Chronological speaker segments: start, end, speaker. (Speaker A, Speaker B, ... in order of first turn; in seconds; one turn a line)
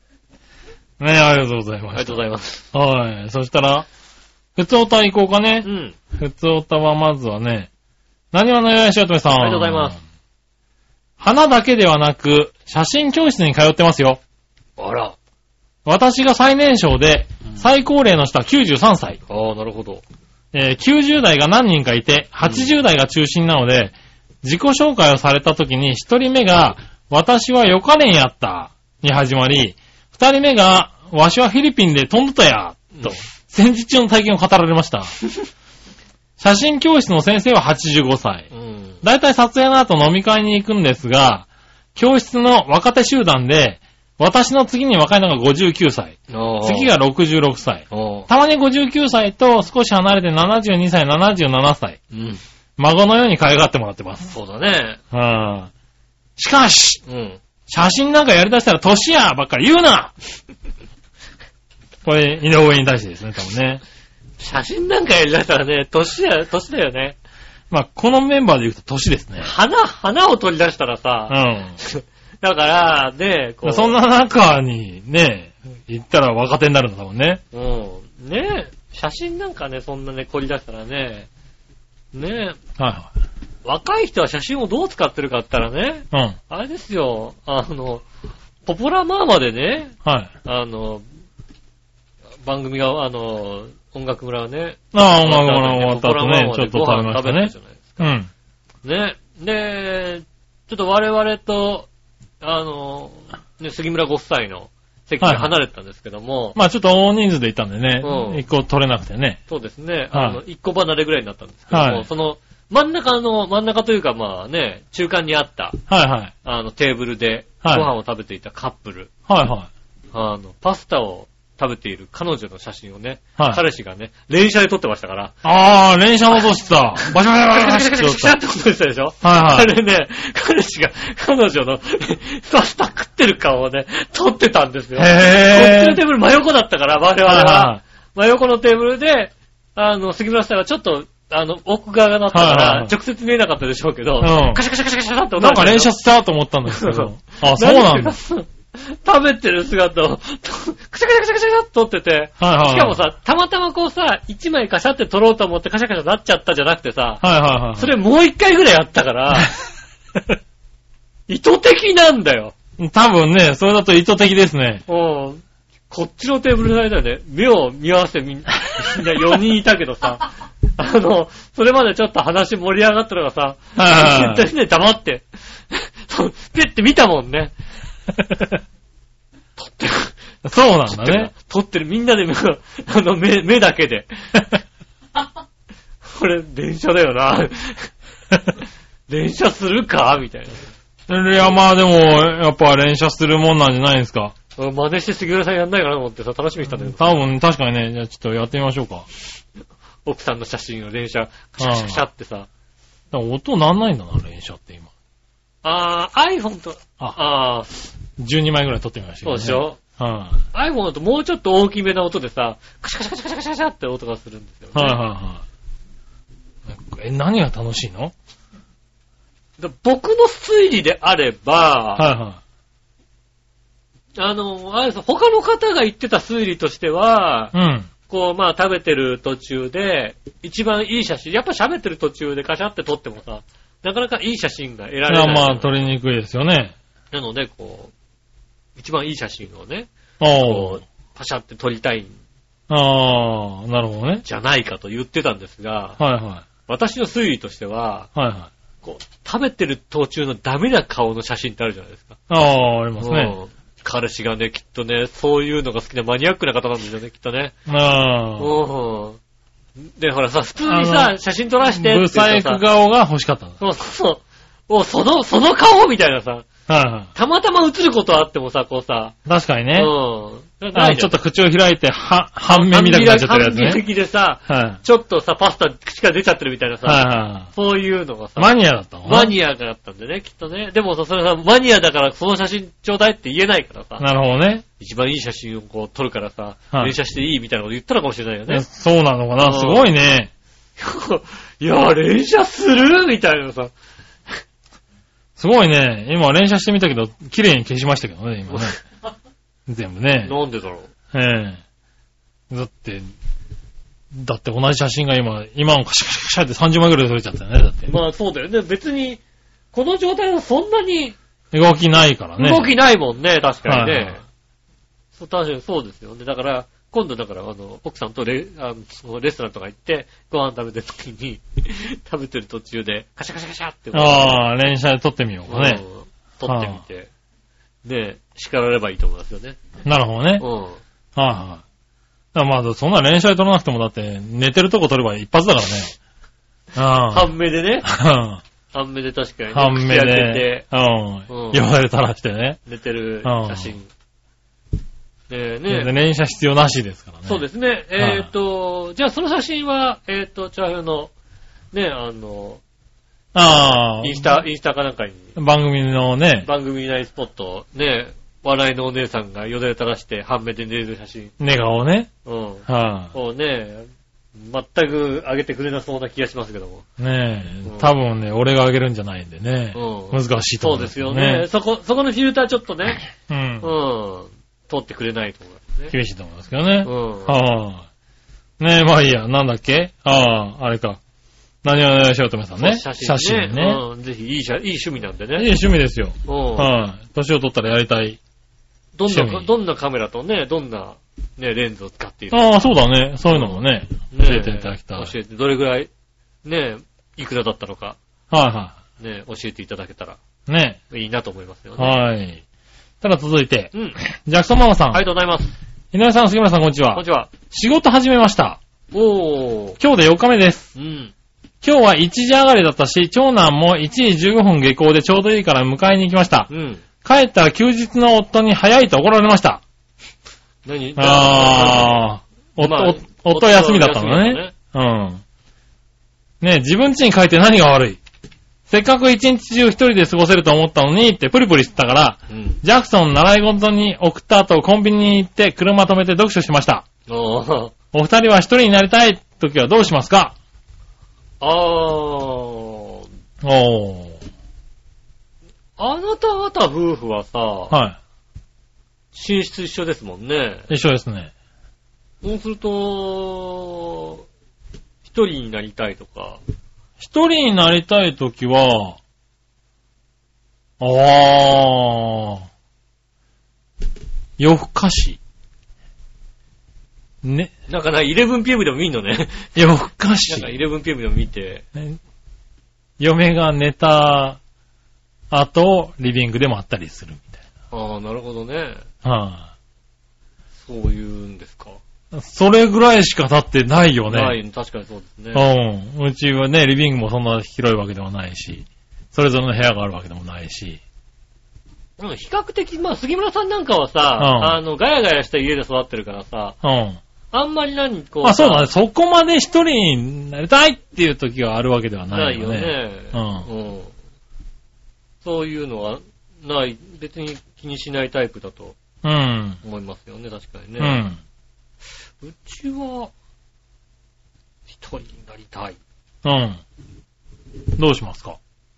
Speaker A: 1.0-2.2
Speaker B: 1.9-2.7
Speaker A: 2.7-3.9
Speaker A: 4.5-7.7
Speaker B: 5.6-6.0
Speaker A: 8.3-10.0
Speaker B: 9.3-10.0
Speaker A: 11.2-14.2
Speaker B: 14.8-15.2
Speaker A: 15.8-19.2
Speaker B: 19.3-20.0
Speaker A: 20.5-35.1
Speaker B: 22.4-22.7
Speaker A: 36.4-38.5
Speaker B: 38.5-39.0
Speaker A: 39.0-52.0
Speaker B: 46.3-46.9
Speaker B: 47.9-48.3
Speaker B: 52.1-52.4
Speaker A: 52.8-54.3
Speaker B: 54.3-55.0
Speaker A: 55.1-55.7
Speaker A: 56.4-57.0
Speaker B: 57.0-57.4
Speaker A: 57.7-60.1
Speaker A: 62.0-63.8
Speaker B: 64.4-67.2
Speaker A: 67.7-69.5
Speaker B: 69.4-74.0
Speaker A: 71.3-71.8
Speaker A: 73.6-77.4
Speaker B: 77.5-81.3
Speaker B: 82.1-82.6
Speaker A: 82.8-83.1
Speaker B: 83.6-88.0
Speaker A: 86.1-86.4
Speaker B: 88.7-91.0
Speaker A: 90.0-90.3
Speaker B: 92.4-98.1
Speaker A: 94.9-98.3
Speaker B: 98.8-101.9
Speaker B: 102.4-106.6
Speaker A: 105.2-105.5
Speaker A: 106.5-109.4
Speaker B: 108.0-108.4
Speaker B: 109.5-115.8
Speaker A: 110.1-110.4
Speaker A: 111.7-112.1
Speaker A: 115.9-116.3
Speaker B: 116.4-119.1
Speaker A: 117.6-117.9
Speaker A: 119.3-119.7
Speaker B: 120.1-125.4
Speaker A: 123.4-123.6
Speaker A: 125.4-128.3
Speaker B: 127.0-145.9
Speaker A: 129.2-129.7
Speaker A: 134.9-136.0
Speaker A: 137.2-137.8
Speaker A: 142.3-142.9
Speaker A: 144.2-144.6
Speaker A: 145.4-148.2
Speaker B: 146.7-159.5
Speaker A: 152.4-153.0
Speaker A: 157.2-157.9
Speaker B: 161.3-162.5
Speaker A: 162.8-164.8
Speaker B: 164.9-177.5
Speaker A: 173.8-174.4
Speaker B: 179.6-180.2
Speaker A: 180.4-181.3
Speaker B: 180.9-184.1
Speaker B: 186.0-187.9
Speaker B: 189.1-190.7
Speaker A: 191.1-194.3
Speaker B: 194.6-197.2
Speaker A: 196.7-199.1
Speaker B: 200.0-202.5
Speaker A: 201.6-202.0
Speaker A: 203.1-204.9
Speaker B: 205.6-207.9
Speaker A: 208.2-210.4
Speaker B: 209.2-209.8
Speaker B: 210.5-215.0
Speaker A: 214.7-215.4
Speaker A: 216.7-218.1
Speaker B: 219.6-222.1
Speaker A: 222.0-222.4
Speaker B: 224.2-227.5
Speaker A: 227.5-227.9
Speaker B: 228.1-235.8
Speaker A: 235.1-236.7
Speaker B: 237.1-237.9
Speaker B: 238.8-242.1
Speaker A: 240.2-240.8
Speaker A: 242.7-244.2
Speaker B: 244.2-246.0
Speaker A: 246.0-246.4
Speaker B: 246.7-248.1
Speaker A: 248.1-248.5
Speaker B: 248.8-252.2
Speaker A: 252.3-253.3
Speaker B: 253.0-257.5
Speaker A: 257.7-258.5
Speaker B: 258.4-259.2
Speaker B: 259.8-262.6
Speaker A: 260.6-261.1
Speaker A: 261.7-263.6
Speaker B: 263.6-266.5
Speaker A: 266.7-267.1
Speaker B: 267.1-269.1
Speaker A: 269.2-269.9
Speaker B: 269.7-271.1
Speaker A: 270.7-273.8
Speaker B: 272.5-278.5
Speaker A: 274.5-274.8
Speaker A: 276.8-277.5
Speaker A: 278.4-279.3
Speaker B: 279.0-284.1
Speaker A: 284.0-284.6
Speaker B: 284.8-288.6
Speaker A: 288.5-290.3
Speaker B: 289.4-289.9
Speaker B: 290.8-293.7
Speaker A: 295.4-298.8
Speaker B: 298.5-298.7
Speaker A: 299.7-300.3
Speaker B: 300.2-300.9
Speaker A: 301.1-301.6
Speaker A: 302.5-303.1
Speaker A: 304.1-307.9
Speaker B: 307.9-309.2
Speaker B: 309.7-311.2
Speaker A: 311.5-312.7
Speaker B: 312.4-314.2
Speaker A: 313.6-314.2
Speaker B: 315.1-324.4
Speaker A: 323.9-325.8
Speaker B: 325.5-327.1
Speaker A: 326.4-326.8
Speaker B: 327.8-329.6
Speaker A: 329.8-330.4
Speaker B: 330.4-330.8
Speaker A: 331.1-331.6
Speaker A: 332.3-335.9
Speaker A: 336.7-338.4
Speaker B: 337.1-337.9
Speaker B: 338.7-340.6
Speaker A: 339.5-342.6
Speaker B: 341.3-341.6
Speaker B: 342.6-343.9
Speaker A: 343.2-343.8
Speaker B: 345.3-345.9
Speaker A: 345.7-347.4
Speaker B: 347.2-351.1
Speaker A: 348.0-348.3
Speaker B: 351.7-352.6
Speaker A: 353.3-354.4
Speaker B: 353.4-355.3
Speaker A: 355.4-356.5
Speaker B: 356.4-361.3
Speaker A: 361.4-362.1
Speaker B: 362.2-366.8
Speaker A: 362.7-363.1
Speaker A: 367.0-371.4
Speaker B: 367.6-367.9
Speaker B: 369.7-373.0
Speaker A: 373.3-373.7
Speaker B: 373.6-375.9
Speaker A: 375.9-377.9
Speaker B: 376.8-377.3
Speaker A: 378.6-381.0
Speaker A: 381.6-383.8
Speaker B: 382.6-385.5
Speaker A: 385.4-388.2
Speaker B: 386.2-386.7
Speaker B: 388.9-392.5
Speaker A: 389.1-389.5
Speaker A: 392.3-395.1
Speaker B: 393.3-395.9
Speaker B: 396.4-398.0
Speaker A: 398.3-398.8
Speaker B: 399.0-400.2
Speaker A: 400.5-400.8
Speaker B: 400.9-402.0
Speaker A: 401.8-402.4
Speaker A: 403.0-405.0
Speaker B: 403.7-404.0
Speaker B: 404.9-405.5
Speaker A: 405.9-408.6
Speaker B: 406.9-407.3
Speaker B: 408.9-409.8
Speaker A: 409.8-410.7
Speaker B: 410.7-411.1
Speaker A: 411.6-416.5
Speaker B: 416.5-416.8
Speaker A: 417.0-419.6
Speaker B: 420.6-422.0
Speaker A: 421.0-425.2
Speaker B: 422.6-424.5
Speaker A: 426.4-428.0
Speaker A: 428.7-436.9
Speaker B: 432.3-432.6
Speaker B: 437.1-437.7
Speaker A: 437.9-440.4
Speaker B: 441.4-443.0
Speaker A: 443.4-444.2
Speaker B: 445.8-447.7
Speaker A: 447.7-448.0
Speaker B: 449.1-450.7
Speaker A: 450.7-451.3
Speaker B: 452.2-454.2
Speaker B: 455.0-456.4
Speaker A: 457.0-459.0
Speaker A: 460.8-462.4
Speaker A: 464.4-465.2
Speaker A: 467.2-467.5
Speaker B: 467.7-469.5
Speaker A: 469.6-470.5
Speaker B: 470.3-471.6
Speaker A: 473.0-474.4
Speaker A: 475.3-477.4
Speaker B: 477.7-478.8
Speaker A: 479.0-479.5
Speaker B: 480.6-481.8
Speaker A: 482.1-484.4
Speaker B: 484.1-485.4
Speaker A: 485.3-490.8
Speaker B: 492.0-496.6
Speaker A: 494.2-494.6
Speaker A: 496.6-497.0
Speaker B: 497.3-498.7
Speaker A: 498.2-503.4
Speaker B: 502.1-503.9
Speaker B: 505.2-508.8
Speaker A: 509.0-509.6
Speaker B: 509.6-511.0
Speaker A: 510.8-511.2
Speaker B: 512.2-513.1
Speaker B: 514.7-515.8
Speaker A: 516.2-516.6
Speaker A: 517.8-518.4